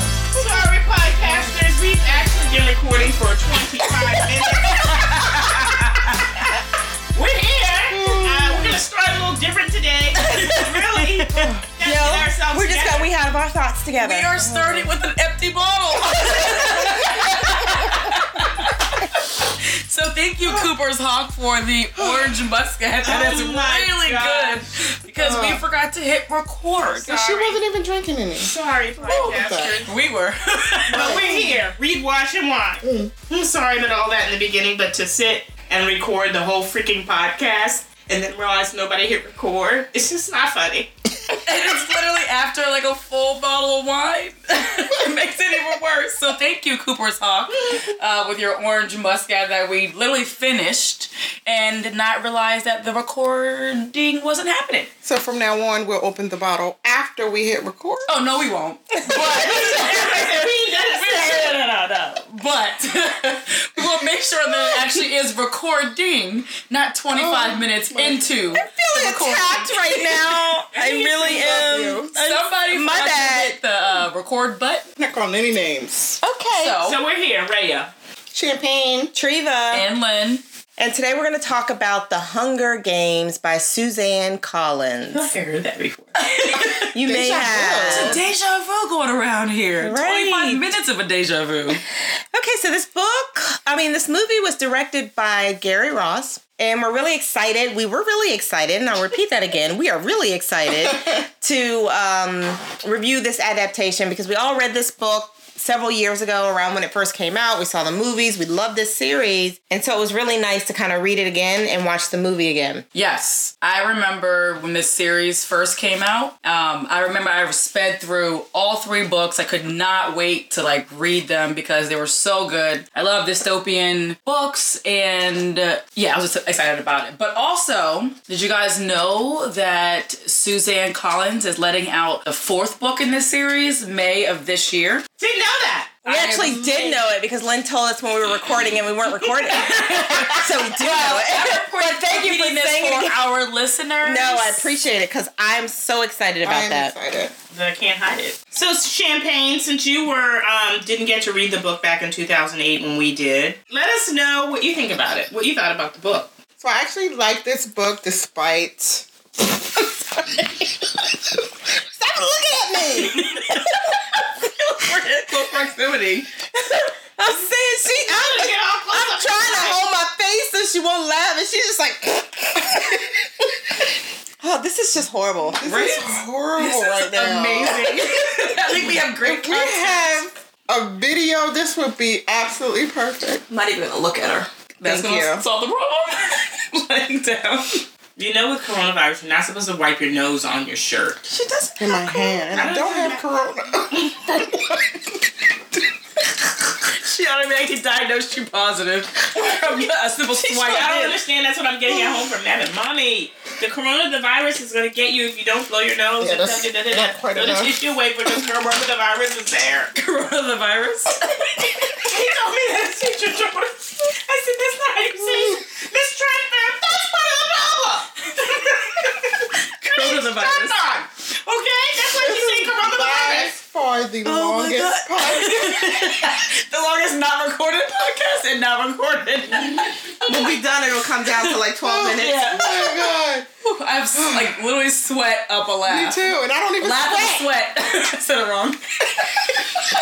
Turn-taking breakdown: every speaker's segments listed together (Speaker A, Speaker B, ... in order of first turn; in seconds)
Speaker A: 0.3-6.4, 7.1-13.1, 23.0-24.7, 26.8-27.6, 28.3-30.0, 30.9-40.9, 59.2-62.2, 70.7-71.8, 76.8-77.9, 85.1-86.4, 135.2-136.8, 139.4-140.3, 147.5-156.3, 167.9-169.8, 188.2-191.2, 192.5-193.2, 200.3-209.9, 212.0-223.5
Speaker B: 4.8-5.2, 11.8-14.9, 16.1-17.6, 59.0-60.5, 68.6-73.6, 76.2-76.8, 79.1-79.8, 80.8-85.3, 86.9-88.2, 89.8-90.7, 92.3-112.8, 136.1-143.2, 144.0-146.9, 161.9-163.8, 166.5-173.3, 174.4-175.9, 230.2-233.1
Speaker C: 7.9-8.8, 22.0-22.2, 25.1-25.6, 27.0-28.5, 29.0-29.8, 30.9-31.6, 32.8-33.1, 55.0-58.1, 67.1-68.3, 69.1-69.6, 71.2-72.1, 75.0-76.2, 78.3-79.1, 86.6-88.2, 146.4-147.3, 156.6-159.1, 175.6-177.9, 179.2-183.4, 184.8-185.4, 191.8-194.8, 206.2-207.8, 215.3-215.5, 222.1-226.0, 231.8-233.5, 234.1-234.6, 235.9-237.5
Speaker D: 10.2-10.8, 14.0-27.2, 29.0-31.2, 41.4-54.9, 58.1-60.4, 61.0-61.6, 62.2-70.3, 72.2-74.9, 76.5-77.0, 79.7-80.4, 86.2-86.9, 87.9-91.8, 112.9-135.0, 136.2-136.8, 139.8-144.7, 163.0-163.7, 164.6-166.3, 175.6-180.2, 183.5-187.7, 191.3-192.4, 196.8-201.2, 209.9-212.1, 218.5-219.2, 219.8-220.8, 224.2-229.9, 232.0-232.6, 233.6-236.2, 236.8-239.3